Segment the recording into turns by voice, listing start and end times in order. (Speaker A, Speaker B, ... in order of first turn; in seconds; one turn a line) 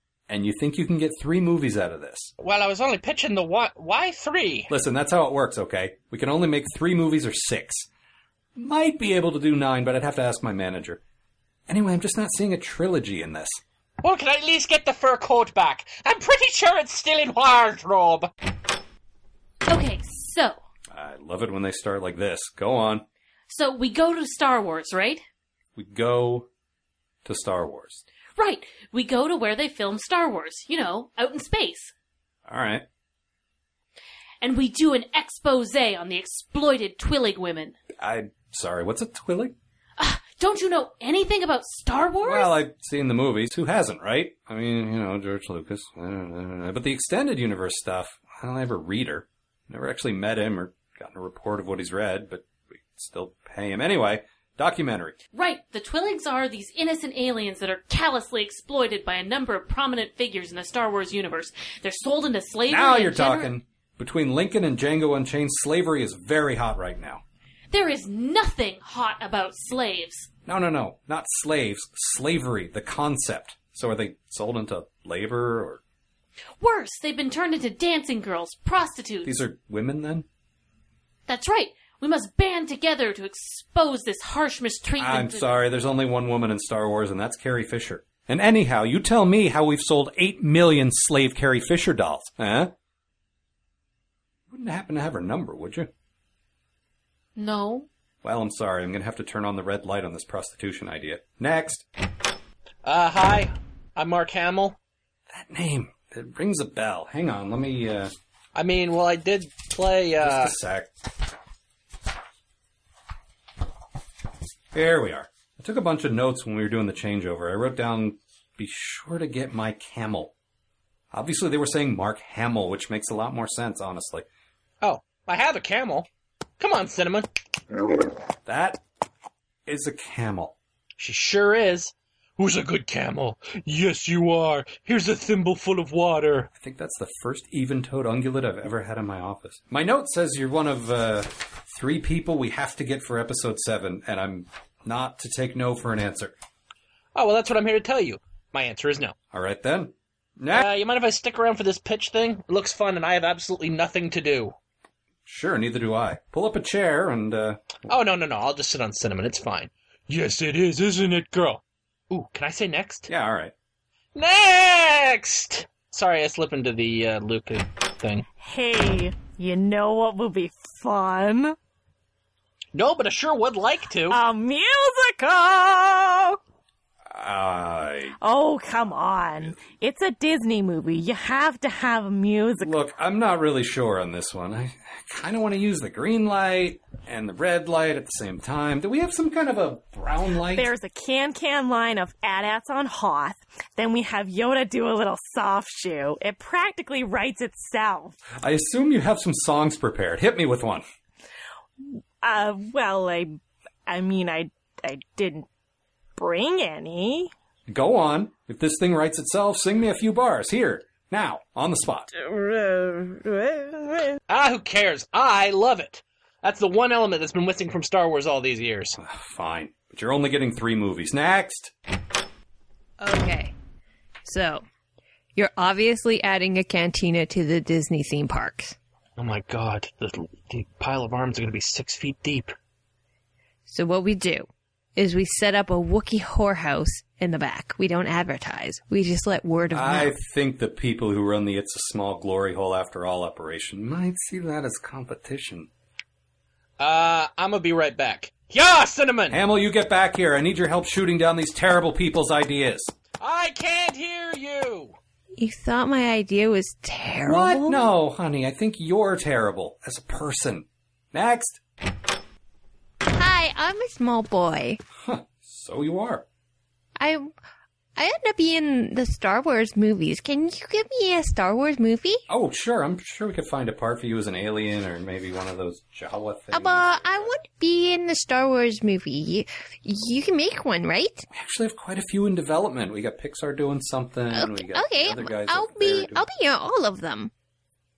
Speaker A: 0.3-2.3
Speaker B: 2.4-4.7
Speaker A: 4.7-7.9
Speaker A: 8.6-11.0
Speaker A: 11.7-13.6
Speaker B: 14.0-18.3
Speaker C: 19.7-20.5
Speaker A: 20.9-23.1
Speaker C: 23.5-25.2
Speaker A: 25.8-26.5
Speaker A: 27.2-28.0
Speaker C: 28.4-31.9
Speaker A: 32.5-32.9
Speaker C: 34.4-37.7
Speaker A: 38.0-39.5
Speaker C: 40.0-42.5
Speaker A: 42.2-55.2
Speaker C: 55.3-63.5
Speaker A: 62.7-67.2
Speaker C: 67.7-70.3
Speaker A: 70.5-75.8
Speaker C: 76.6-79.4
Speaker A: 79.2-80.3
Speaker C: 81.3-85.5
Speaker A: 85.0-92.7
Speaker A: 94.5-95.9
Speaker C: 97.4-97.9
Speaker A: 98.2-101.8
Speaker B: 102.8-104.8
Speaker A: 105.3-108.1
Speaker B: 108.5-110.5
Speaker A: 110.2-110.9
Speaker A: 114.7-120.3
Speaker A: 121.1-124.3
Speaker B: 124.8-126.1
Speaker B: 126.6-127.3
Speaker A: 128.5-128.8
Speaker A: 129.7-130.6
Speaker B: 131.0-136.5
Speaker A: 136.6-146.4
Speaker B: 147.2-149.2
Speaker A: 149.3-150.7
Speaker B: 150.5-154.5
Speaker A: 155.3-157.8
Speaker B: 157.9-163.1
Speaker A: 163.1-163.5
Speaker B: 164.2-168.3
Speaker D: 168.4-171.6
Speaker B: 172.7-174.2
Speaker D: 174.1-176.4
Speaker A: 177.1-178.2
Speaker D: 178.2-182.8
Speaker A: 182.6-190.7
Speaker D: 190.5-198.2
Speaker A: 198.4-200.8
Speaker D: 202.2-205.5
Speaker D: 206.2-207.3
Speaker A: 207.7-212.1
Speaker D: 212.1-214.2
Speaker B: 214.3-219.0
Speaker A: 219.0-221.7
Speaker E: 223.0-223.5
Speaker E: 224.2-224.6
Speaker E: 225.4-228.8
Speaker B: 229.2-232.6
Speaker E: 233.7-240.1
Speaker A: 239.7-245.7
Speaker B: 246.8-249.4
Speaker A: 249.3-252.9
Speaker B: 253.2-255.0
Speaker E: 255.4-257.9
Speaker A: 257.2-261.6
Speaker E: 263.1-264.8
Speaker A: 265.0-266.2
Speaker E: 267.0-267.3
Speaker E: 268.0-272.2
Speaker A: 272.3-277.3
Speaker E: 276.5-281.3
Speaker A: 281.3-286.2
Speaker E: 284.3-287.3